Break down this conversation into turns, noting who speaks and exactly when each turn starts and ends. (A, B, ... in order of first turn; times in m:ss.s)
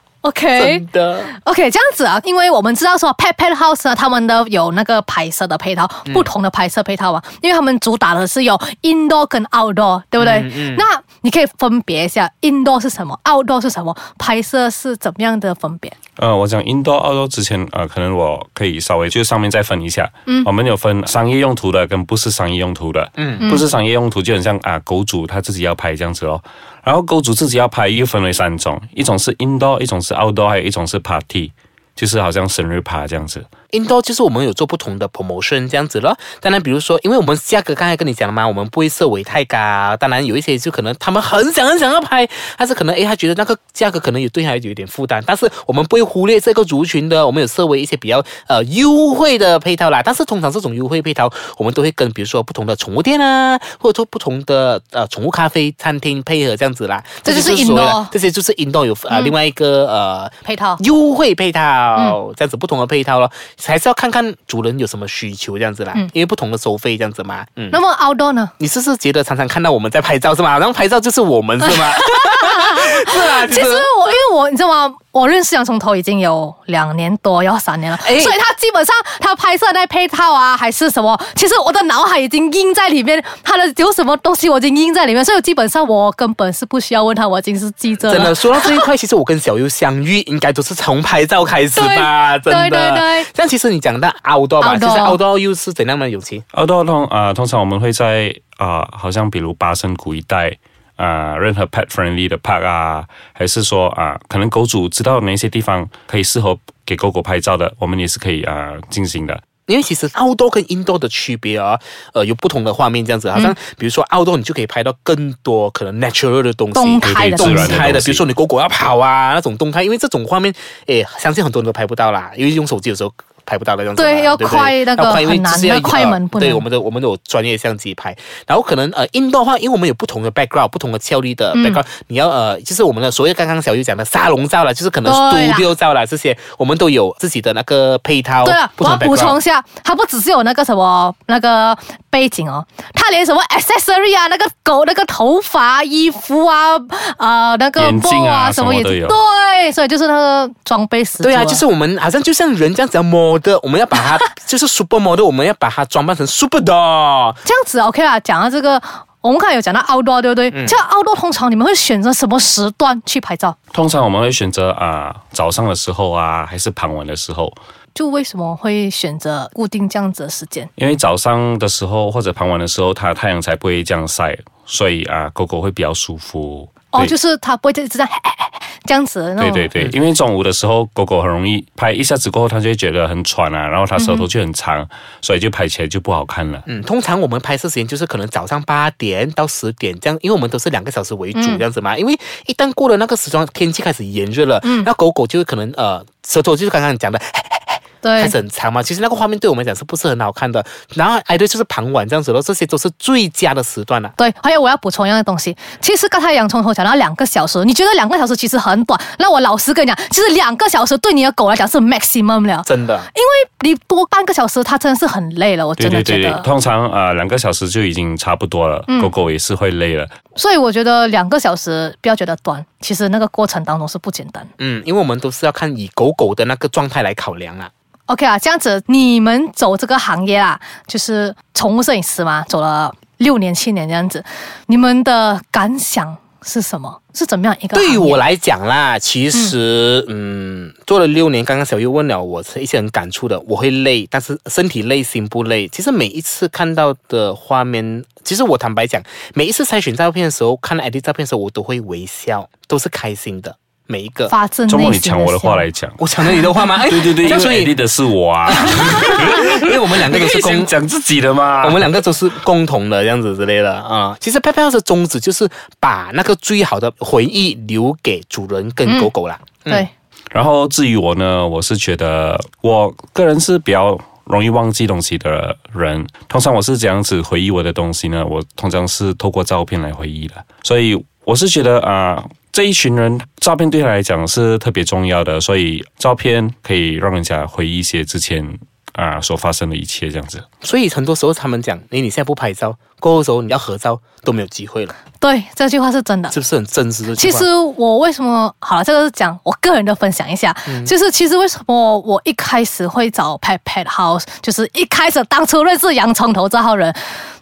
0:00.2-0:15.9 A
0:00.6-0:01.3 B
0:10.2-0:10.8 B
0:16.2-0:33.5 C
0:23.2-0:23.5 B
0:33.7-1:07.8 B
0:57.2-0:58.1 A
1:00.4-1:00.8 A
1:07.7-1:08.5 A
1:08.6-1:13.9 B
1:11.6-1:28.8 A
1:18.0-1:18.3 B
1:28.0-1:36.4 B
1:31.7-1:33.3 A
1:34.6-1:35.2 A
1:36.5-1:49.4 C
1:49.7-2:19.4 B
1:56.7-1:57.8 A
1:57.0-1:58.2 C
2:04.0-2:06.6 A
2:11.5-2:11.8 A
2:15.0-2:15.7 A
2:18.4-2:31.6 A
2:27.8-2:29.2 C
2:31.2-2:37.4 B
2:37.4-2:43.6 A
2:40.5-2:40.8 B
2:43.7-2:47.6 C
2:47.9-2:50.7 A
2:50.8-2:57.1 C
2:56.9-2:59.7 A
2:59.4-3:06.6 C
3:04.0-3:04.2 A
3:06.6-3:24.1 B
3:11.3-3:11.6 A
3:14.6-3:14.9 A
3:18.0-3:18.4 A
3:24.2-3:36.5 A
3:32.6-3:33.1 B
3:35.8-3:40.1 C
3:38.9-3:39.1 A
3:40.3-3:44.5 A
3:44.6-3:47.7 B
3:48.1-3:58.2 A
3:57.7-4:14.3 B
4:14.3-4:15.7 A
4:14.7-4:16.0 C
4:16.0-4:17.7 B
4:16.9-4:21.8 C
4:18.4-4:20.7 B
4:21.6-4:29.9 B
4:28.8-4:29.1 A
4:30.3-4:50.4 C
4:50.6-4:55.0 B
4:55.2-4:56.4 A
4:56.3-4:57.5 B
4:57.1-5:07.0 A
5:00.6-5:00.9 B